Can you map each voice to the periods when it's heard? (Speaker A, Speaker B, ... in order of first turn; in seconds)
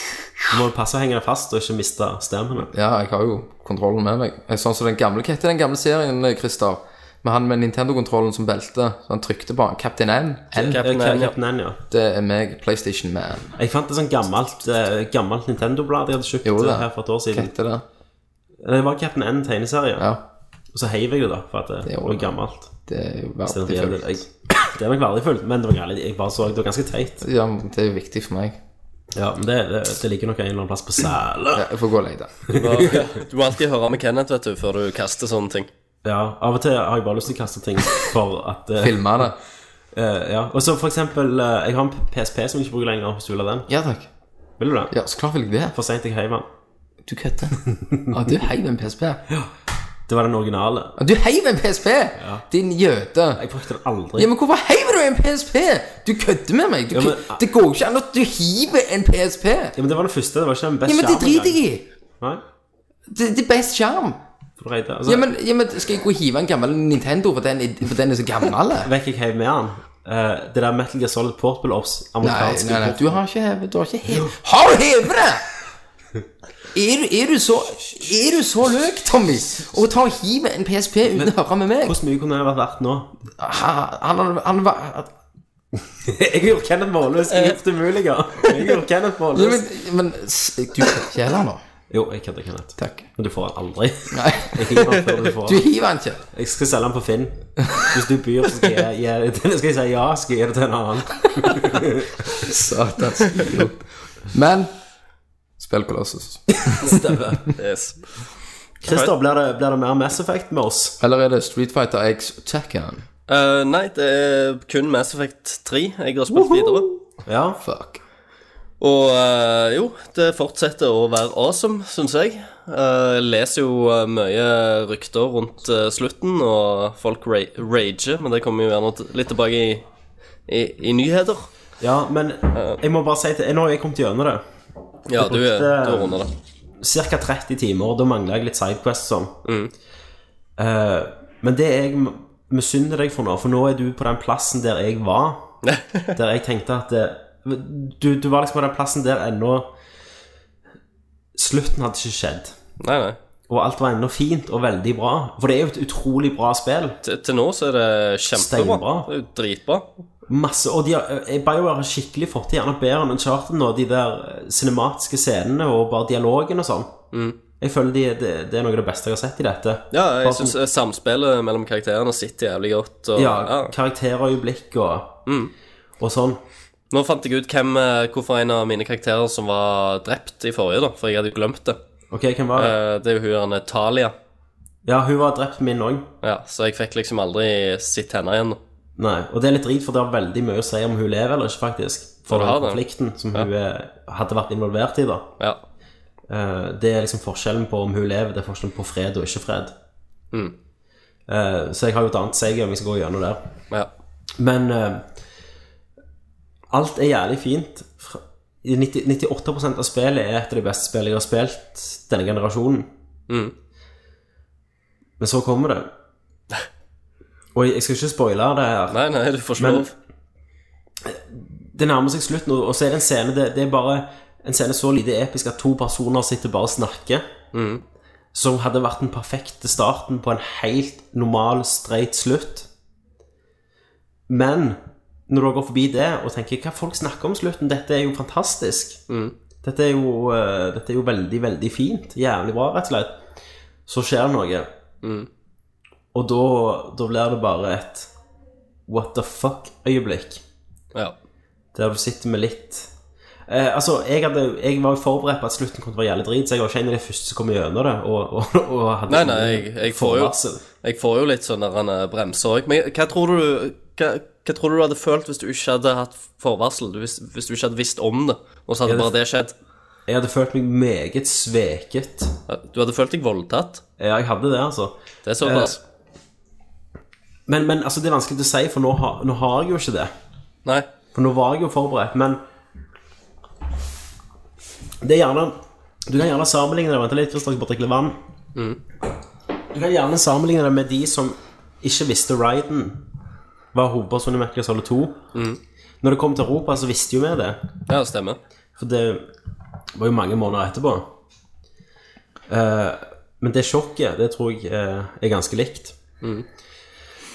Speaker A: 0.5-2.7, 10.7-11.8, 13.6-17.5, 18.6-20.1, 20.7-22.7, 23.5-27.2, 29.1-31.6, 32.5-33.0, 36.0-39.3, 39.9-43.7, 44.6-44.9, 45.7-46.5, 47.8-48.1, 50.1-51.0, 52.2-52.4, 53.4-54.3, 56.9-57.4, 59.8-61.6, 64.6-65.3, 68.8-73.2, 81.1-83.1, 85.9-89.6, 91.9-95.6, 96.3-102.1, 106.7-107.5, 108.8-111.0, 117.2-117.6, 131.8-134.4, 135.2-136.2, 136.8-139.3, 140.6-145.6, 146.1-149.7, 151.3-152.6, 153.5-157.0, 158.3-159.1, 160.3-166.9, 167.6-170.5, 173.2-175.2, 176.0-176.4, 182.1-182.7, 184.8-186.1, 189.0-195.3, 196.3-199.7, 201.3-203.4, 204.4-205.1, 206.7-212.9, 215.2-215.9, 217.5-219.0, 219.6-219.9, 221.0-227.2, 228.3-232.7, 234.3-239.0, 239.6-243.2, 243.9-244.7, 246.1-248.1, 248.9-250.4, 251.7-252.9, 253.5-260.6, 268.9-269.1, 270.1-272.3, 274.0-275.7, 277.5-280.1, 281.1-282.4, 285.0-288.2, 289.7-293.0, 293.7-295.2, 296.0-297.6, 298.8-299.3, 299.9-301.1, 302.5-306.0
Speaker B: 2.7-10.8, 11.9-13.5, 16.4-17.8, 20.0-20.2, 21.8-24.2, 27.2-28.6, 31.5-32.5, 38.8-39.4, 43.7-44.1, 44.9-45.7, 47.0-49.2, 51.0-53.4, 54.1-59.8, 60.9-61.9, 63.1-64.2, 65.0-68.9, 72.2-75.5, 76.7-82.0, 83.4-85.1, 89.3-91.6, 92.8-93.1, 94.1-96.2, 102.3-104.7, 105.6-107.0, 111.0-113.0, 117.6-118.0
Speaker C: 10.6-11.3, 32.5-35.7, 107.6-108.2, 108.8-109.1, 113.3-116.9, 118.8-129.8, 130.5-131.5, 132.5-132.8, 135.1-136.3, 139.4-139.7, 145.6-146.1, 152.8-153.2, 157.0-159.9, 169.9-173.7, 175.3-175.5, 176.9-181.8, 182.6-184.1, 186.2-188.6, 192.3-193.5, 218.9-219.9, 227.5-227.8, 239.1-239.3, 245.0-245.3, 259.1-269.5, 272.5-273.8, 275.2-275.8, 295.3-295.6, 297.9-298.4